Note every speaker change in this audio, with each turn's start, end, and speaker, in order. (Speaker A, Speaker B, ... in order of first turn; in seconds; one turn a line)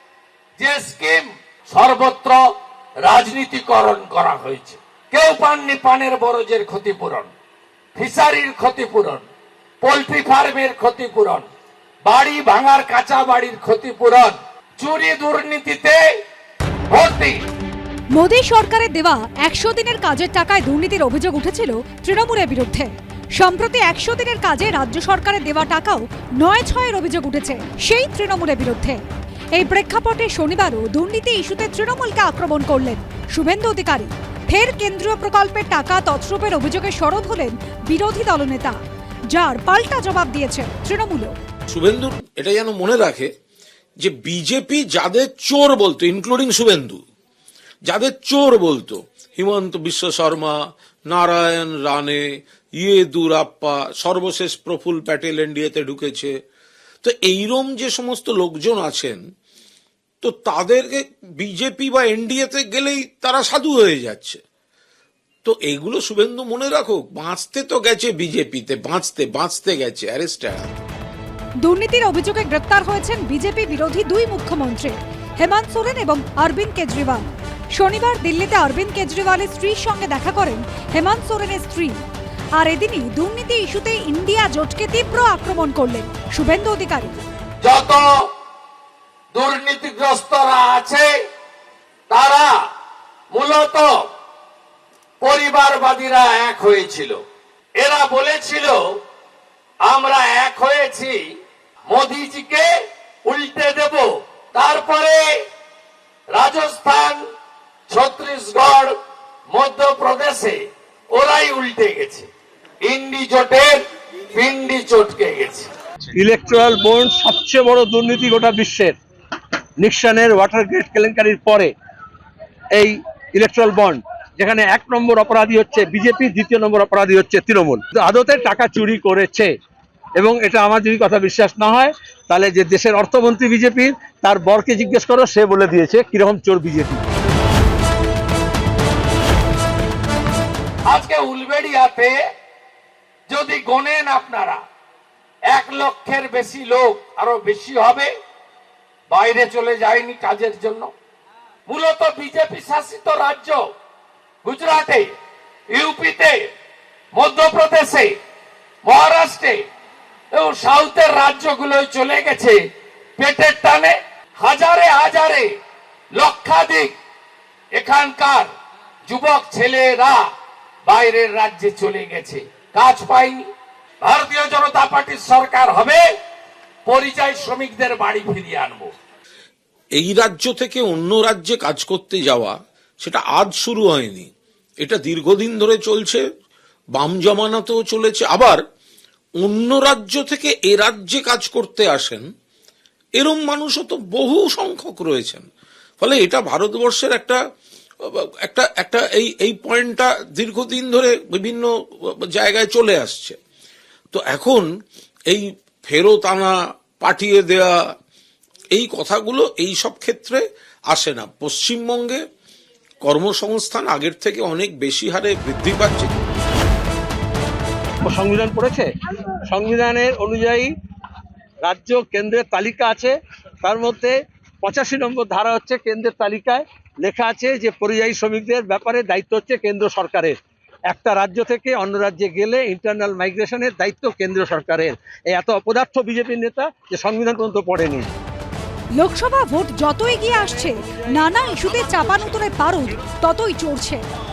Speaker A: 0.6-2.4
Speaker A: 3.0-7.3
Speaker A: 8.0-9.2
Speaker A: 9.8-11.4
Speaker A: 12.1-16.0
Speaker A: 16.9-17.4
Speaker B: 18.1-29.0
Speaker B: 29.6-38.8
Speaker B: 39.3-41.3
Speaker C: 41.7-43.3
Speaker C: 44.0-47.0
Speaker C: 47.9-50.5
Speaker C: 51.1-52.2
Speaker C: 52.8-56.3
Speaker C: 57.0-59.2
Speaker C: 60.2-64.4
Speaker C: 65.5-70.8
Speaker B: 71.6-82.0
Speaker B: 82.6-87.2
Speaker A: 87.6-88.1
Speaker A: 89.3-91.1
Speaker A: 92.1-92.5
Speaker A: 93.3-94.0
Speaker A: 95.2-97.2
Speaker A: 97.8-98.8
Speaker A: 99.8-101.3
Speaker A: 101.9-102.7
Speaker A: 103.2-105.3
Speaker A: 106.3-107.2
Speaker A: 107.9-108.9
Speaker A: 109.5-110.6
Speaker A: 111.1-112.3
Speaker A: 112.8-113.8
Speaker A: 114.3-115.7
Speaker D: 116.2-119.0
Speaker D: 119.8-121.7
Speaker D: 122.8-129.5
Speaker D: 130.2-137.0
Speaker A: 140.9-142.2
Speaker A: 143.3-144.6
Speaker A: 145.5-148.1
Speaker A: 149.1-150.9
Speaker A: 151.7-153.6
Speaker A: 154.4-155.1
Speaker A: 155.7-156.5
Speaker A: 157.1-158.1
Speaker A: 158.8-159.6
Speaker A: 160.3-162.6
Speaker A: 163.2-165.5
Speaker A: 166.1-166.9
Speaker A: 167.8-168.5
Speaker A: 169.1-170.2
Speaker A: 170.9-173.5
Speaker A: 174.0-176.1
Speaker A: 176.9-178.9
Speaker C: 180.0-184.3
Speaker C: 184.8-186.2
Speaker C: 186.9-188.6
Speaker C: 189.4-192.3
Speaker C: 193.2-195.5
Speaker C: 196.0-197.4
Speaker C: 198.1-203.4
Speaker C: 204.1-204.7
Speaker C: 205.3-207.7
Speaker C: 208.7-212.2
Speaker C: 213.0-216.2
Speaker D: 218.0-218.9
Speaker D: 219.5-220.7
Speaker D: 221.6-230.3
Speaker D: 230.9-238.1
Speaker B: 239.0-244.0
Speaker D: 240.2-241.3